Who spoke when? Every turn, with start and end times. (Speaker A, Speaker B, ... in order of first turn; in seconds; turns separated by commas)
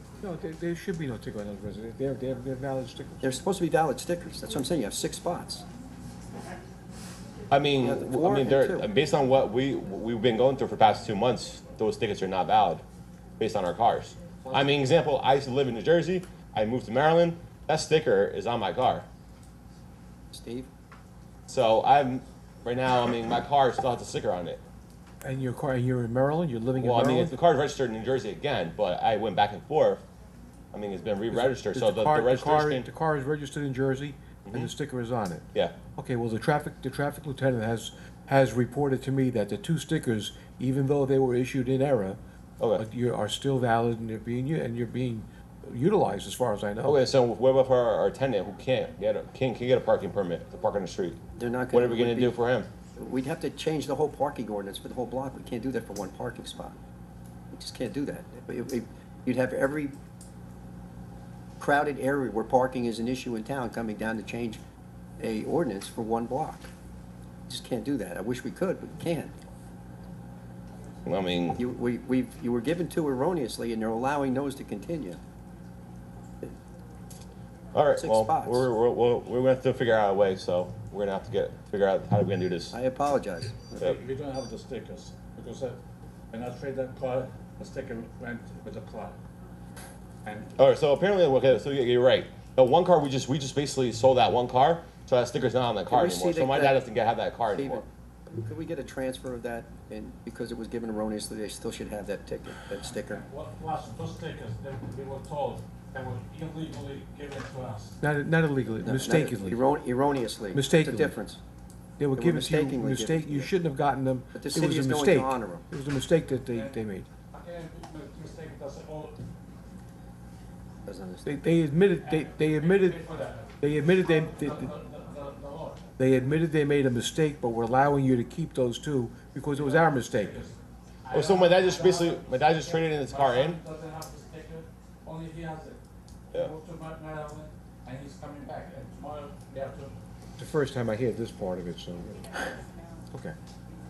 Speaker A: 0.2-3.2, Speaker B: 3.2-5.7, Speaker C: 7.5-12.8, Speaker B: 7.8-8.9, Speaker C: 13.4-19.1, Speaker B: 14.4-14.7, Speaker B: 20.3-20.7, Speaker C: 21.5-24.6, Speaker A: 25.2-27.4, Speaker C: 26.8-30.0, Speaker C: 30.7-32.9, Speaker A: 31.3-42.2, Speaker A: 42.8-47.0, Speaker C: 46.9-51.2, Speaker B: 51.4-52.4, Speaker C: 51.7-52.7, Speaker B: 53.0-56.8, Speaker B: 57.5-60.0, Speaker B: 61.6-64.6, Speaker B: 65.2-66.7, Speaker B: 67.5-69.3, Speaker C: 71.1-71.6, Speaker B: 71.6-75.2, Speaker C: 77.7-82.8, Speaker B: 78.0-78.7, Speaker B: 82.7-83.9, Speaker D: 83.8-85.8, Speaker D: 86.3-89.2, Speaker D: 90.2-90.5, Speaker C: 90.6-97.8, Speaker B: 95.9-96.8, Speaker B: 97.5-103.2, Speaker D: 103.1-108.0, Speaker A: 108.0-109.6, Speaker B: 108.8-111.4, Speaker A: 110.5-111.2, Speaker A: 112.0-117.1, Speaker B: 112.2-113.5, Speaker B: 114.3-115.7, Speaker D: 116.5-116.8, Speaker D: 117.3-119.2, Speaker B: 120.9-121.4, Speaker A: 121.2-123.0, Speaker D: 122.1-125.8, Speaker A: 123.6-124.7, Speaker A: 126.0-130.4, Speaker D: 129.6-135.8, Speaker C: 131.1-133.6, Speaker D: 136.3-140.0, Speaker A: 140.4-142.6, Speaker A: 143.1-143.4